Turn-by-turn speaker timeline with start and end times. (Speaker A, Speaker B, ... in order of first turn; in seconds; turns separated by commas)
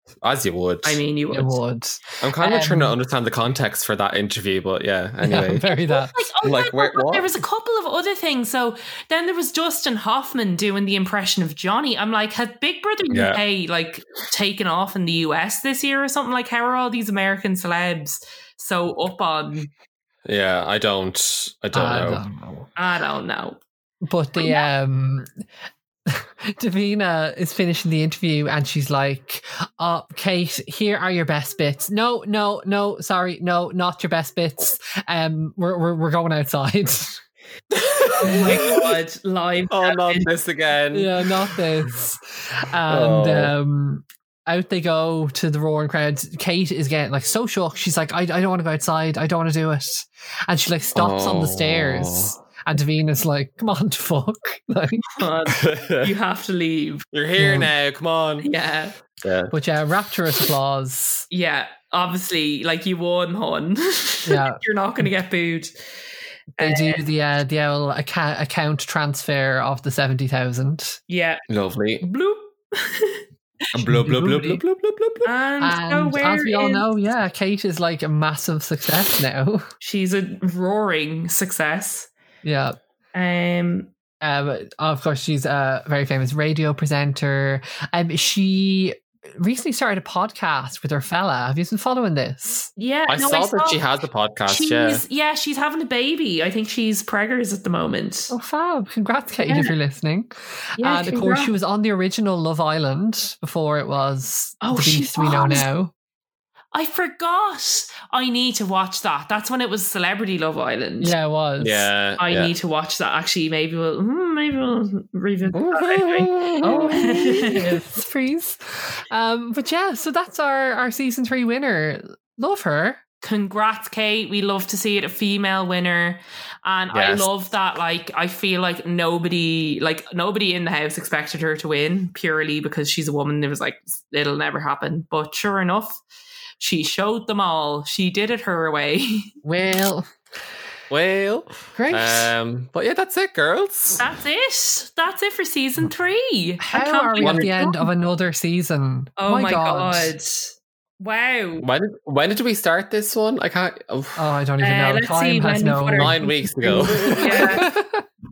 Speaker A: 0.2-1.0, Speaker B: 0.8-1.6, Speaker C: 1.3-2.9, Speaker A: 2.2-5.7, Speaker C: 5.2-6.2, Speaker B: 5.8-19.7, Speaker A: 6.4-7.3, Speaker A: 13.1-13.4, Speaker A: 20.2-22.2, Speaker C: 21.7-22.7, Speaker B: 22.8-23.6, Speaker C: 24.1-25.3, Speaker B: 24.4-24.7, Speaker C: 26.1-37.2, Speaker A: 37.7-38.9, Speaker B: 38.1-40.3, Speaker C: 38.2-38.6, Speaker A: 39.7-41.1, Speaker C: 40.9-55.2, Speaker A: 42.9-43.5, Speaker A: 50.9-52.3, Speaker B: 55.1-57.0, Speaker A: 55.5-56.1, Speaker A: 57.1-58.5, Speaker C: 57.4-57.7, Speaker B: 58.4-59.0, Speaker A: 59.2-59.5, Speaker C: 59.5-61.3, Speaker B: 61.3-65.7, Speaker C: 64.2-64.6, Speaker C: 66.6-71.0, Speaker B: 66.6-67.0, Speaker B: 71.1-71.4, Speaker A: 71.5-72.0, Speaker B: 72.0-73.2, Speaker A: 73.7-75.3, Speaker C: 73.8-74.6, Speaker B: 75.2-76.8, Speaker C: 75.6-79.7, Speaker B: 79.8-82.1, Speaker C: 82.4-82.8, Speaker B: 83.1-83.9, Speaker C: 84.2-92.7, Speaker B: 92.8-93.8, Speaker A: 93.1-95.0, Speaker B: 94.5-98.3, Speaker C: 98.3-105.9, Speaker B: 99.4-99.7, Speaker B: 100.8-101.5, Speaker B: 104.6-105.7, Speaker B: 106.7-111.1, Speaker C: 111.0-111.9, Speaker A: 111.6-112.5, Speaker B: 112.2-117.9, Speaker A: 115.5-116.6, Speaker C: 116.6-123.0, Speaker B: 123.2-136.0, Speaker A: 126.9-127.3, Speaker B: 136.6-139.3, Speaker C: 139.4-140.1, Speaker A: 140.9-144.0, Speaker C: 141.8-142.3, Speaker B: 144.0-147.9, Speaker C: 146.6-150.1, Speaker A: 147.2-147.5, Speaker B: 149.2-151.7, Speaker A: 151.6-154.2, Speaker C: 154.2-158.0, Speaker B: 154.6-156.3, Speaker A: 155.9-157.6, Speaker B: 157.0-157.7